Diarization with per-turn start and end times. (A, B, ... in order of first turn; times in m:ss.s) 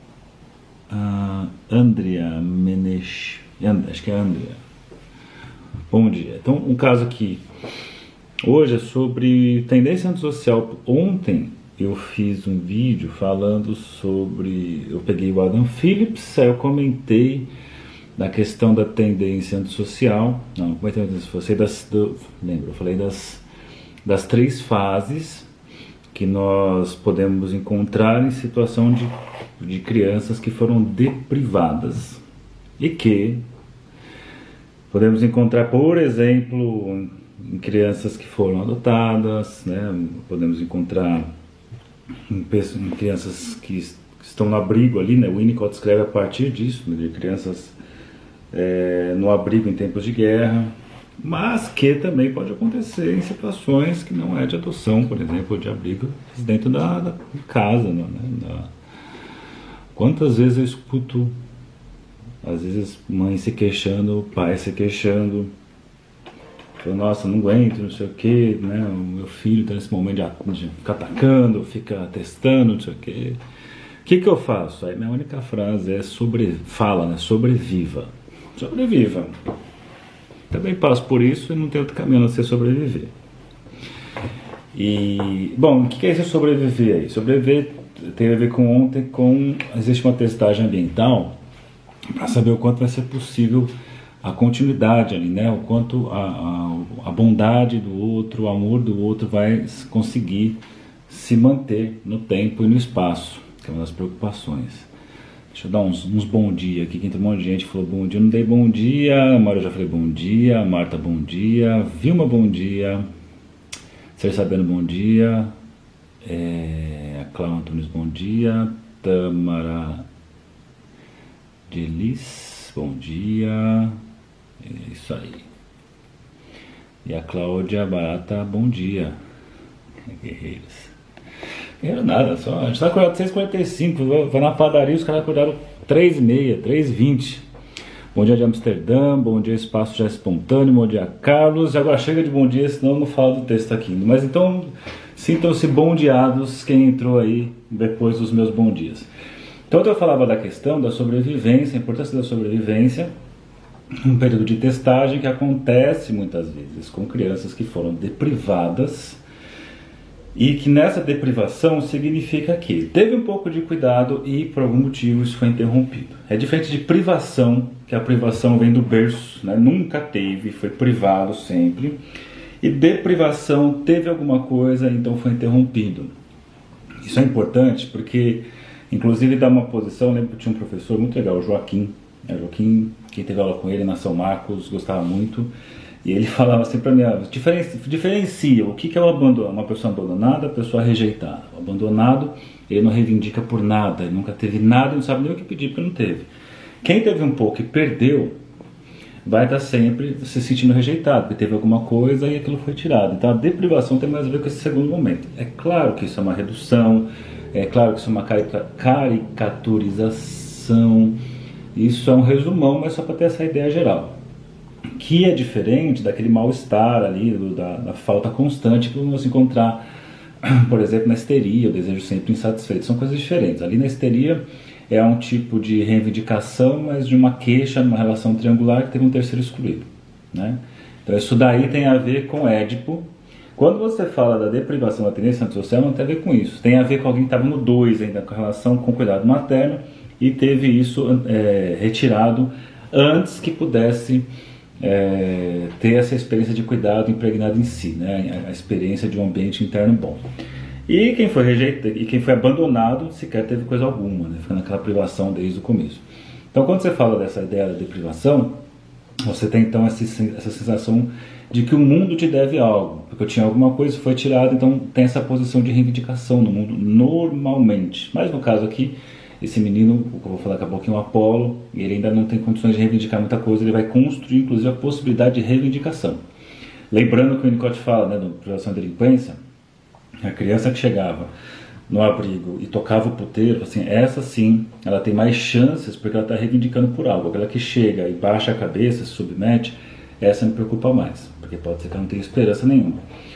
0:00.9-0:04.6 A
0:05.9-0:07.4 A
0:08.4-0:17.5 A
0:18.2-0:23.4 A
0:24.0-0:25.5 A
0:26.1-0:32.2 A
0:32.8-0:33.4 A
0:34.9-0:41.3 A
0:42.3-0:47.8 A
0:48.5-0:58.7 A
0:59.9-1:01.3 A
1:02.4-1:05.5 A
1:06.8-1:13.4 A
1:14.0-1:19.3 A
1:20.5-1:23.1 A
1:24.7-1:31.3 A
1:32.2-1:33.7 A
1:34.2-1:44.9 A
1:45.5-1:53.0 A
1:54.2-1:55.5 A
1:56.2-2:00.1 A
2:01.7-2:04.0 A
2:04.6-2:05.4 A
2:07.0-2:09.2 A
2:10.1-2:10.9 A
2:11.8-2:17.4 A
2:18.1-2:29.1 A
2:29.7-2:33.1 A
2:34.0-2:39.2 A
2:40.4-2:52.0 A
2:52.6-2:56.1 A
2:57.0-3:05.5 A
3:06.0-3:16.3 A
3:16.8-3:18.3 A
3:19.2-3:31.2 A
3:31.8-3:34.2 A
3:35.0-3:39.8 A
3:40.4-3:53.0 A
3:53.6-4:04.2 A
4:04.8-4:10.2 A
4:10.9-4:18.6 A
4:19.2-4:36.2 A
4:36.9-4:39.4 A
4:40.2-4:41.3 A
4:41.9-4:53.0 A